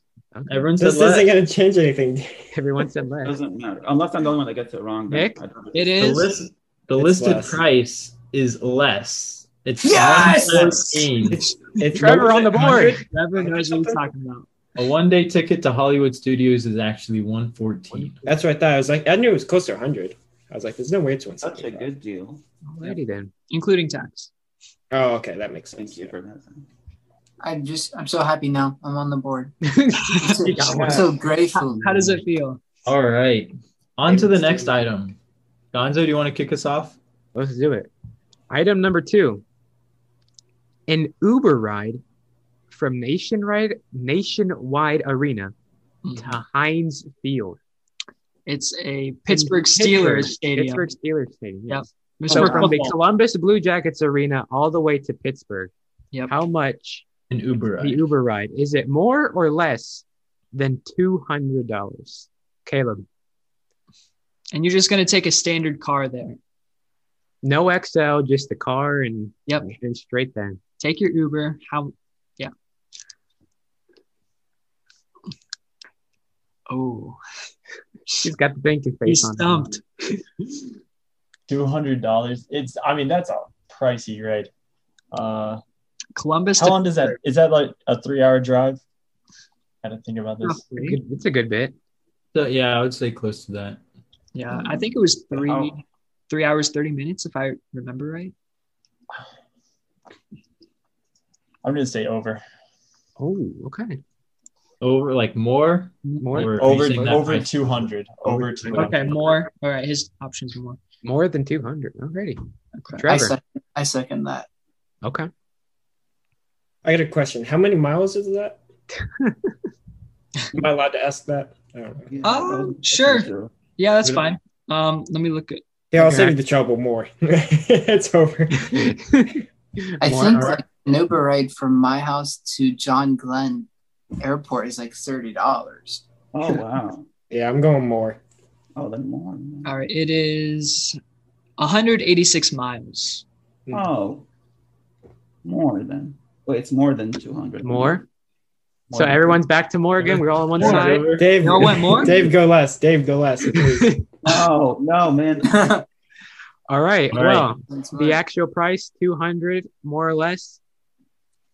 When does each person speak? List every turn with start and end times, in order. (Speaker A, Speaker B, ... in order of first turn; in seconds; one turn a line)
Speaker A: 0.3-0.6
Speaker B: 0.5-1.3
Speaker C: 0.8-2.5
Speaker A: 2.5-3.4
Speaker D: 3.2-6.2
Speaker A: 5.1-5.4
Speaker E: 5.7-6.3
Speaker B: 6.0-11.4
Speaker C: 6.9-7.6
Speaker F: 9.8-11.1
Speaker C: 11.2-14.1
Speaker A: 11.9-13.0
Speaker E: 13.1-14.5
Speaker B: 14.8-18.2
Speaker C: 18.2-21.9
Speaker D: 21.4-22.4
Speaker A: 22.8-23.3
Speaker E: 23.5-24.3
Speaker C: 24.9-26.1
Speaker D: 25.8-26.6
Speaker F: 27.4-29.5
Speaker A: 29.6-31.0
Speaker E: 30.0-30.9
Speaker F: 30.2-32.2
Speaker B: 30.4-31.0
Speaker D: 30.6-31.1
Speaker E: 31.5-32.6
Speaker B: 32.9-35.2
Speaker C: 34.1-34.8
Speaker B: 35.7-37.0
Speaker A: 37.3-37.9
Speaker A: 38.5-39.4
Speaker A: 40.9-42.0
Speaker A: 42.7-45.5
Speaker E: 46.0-46.4
Speaker A: 46.1-47.6
Speaker E: 48.5-50.9
Speaker A: 49.3-55.7
Speaker E: 51.7-52.9
Speaker G: 52.3-52.9
Speaker A: 56.3-57.0
Speaker B: 57.3-58.0
Speaker A: 57.8-63.0
Speaker E: 64.5-66.4
Speaker A: 67.4-70.6
Speaker E: 69.5-69.7
Speaker E: 70.8-72.5
Speaker E: 76.7-77.2
Speaker A: 78.2-79.7
Speaker E: 79.0-80.2
Speaker G: 81.5-84.5
Speaker G: 85.1-85.6
Speaker E: 86.2-87.2
Speaker G: 86.6-88.8
Speaker G: 89.8-90.6
Speaker E: 90.4-91.0
Speaker A: 90.8-91.7
Speaker B: 92.3-93.8
Speaker E: 94.3-98.3
Speaker D: 95.3-95.7
Speaker G: 101.6-102.4
Speaker A: 103.2-104.0
Speaker B: 104.8-107.5
Speaker E: 106.0-106.4
Speaker A: 106.2-106.5
Speaker G: 106.5-109.3
Speaker A: 108.2-109.1
Speaker E: 108.7-110.8
Speaker A: 111.0-112.4
Speaker E: 112.8-113.1
Speaker A: 113.0-113.3
Speaker F: 113.0-114.5
Speaker A: 115.0-115.3
Speaker C: 116.8-118.6
Speaker A: 119.0-119.3
Speaker C: 120.5-122.1
Speaker D: 122.1-123.5
Speaker E: 122.2-126.3
Speaker C: 125.9-128.9
Speaker A: 128.6-130.6
Speaker F: 130.0-133.7
Speaker B: 130.3-130.6
Speaker F: 134.2-136.0
Speaker D: 136.3-137.1
Speaker C: 137.3-138.2
Speaker D: 138.8-139.7
Speaker E: 139.6-141.0
Speaker E: 141.6-143.2
Speaker D: 143.7-144.2
Speaker D: 145.4-148.0
Speaker A: 147.6-148.0
Speaker D: 148.9-149.4
Speaker A: 148.9-151.1
Speaker B: 150.0-151.8
Speaker E: 150.6-152.2
Speaker C: 151.2-154.0
Speaker A: 153.5-154.0
Speaker D: 154.2-155.7
Speaker F: 155.5-155.8
Speaker A: 156.7-160.6
Speaker B: 157.1-157.5
Speaker F: 157.7-158.2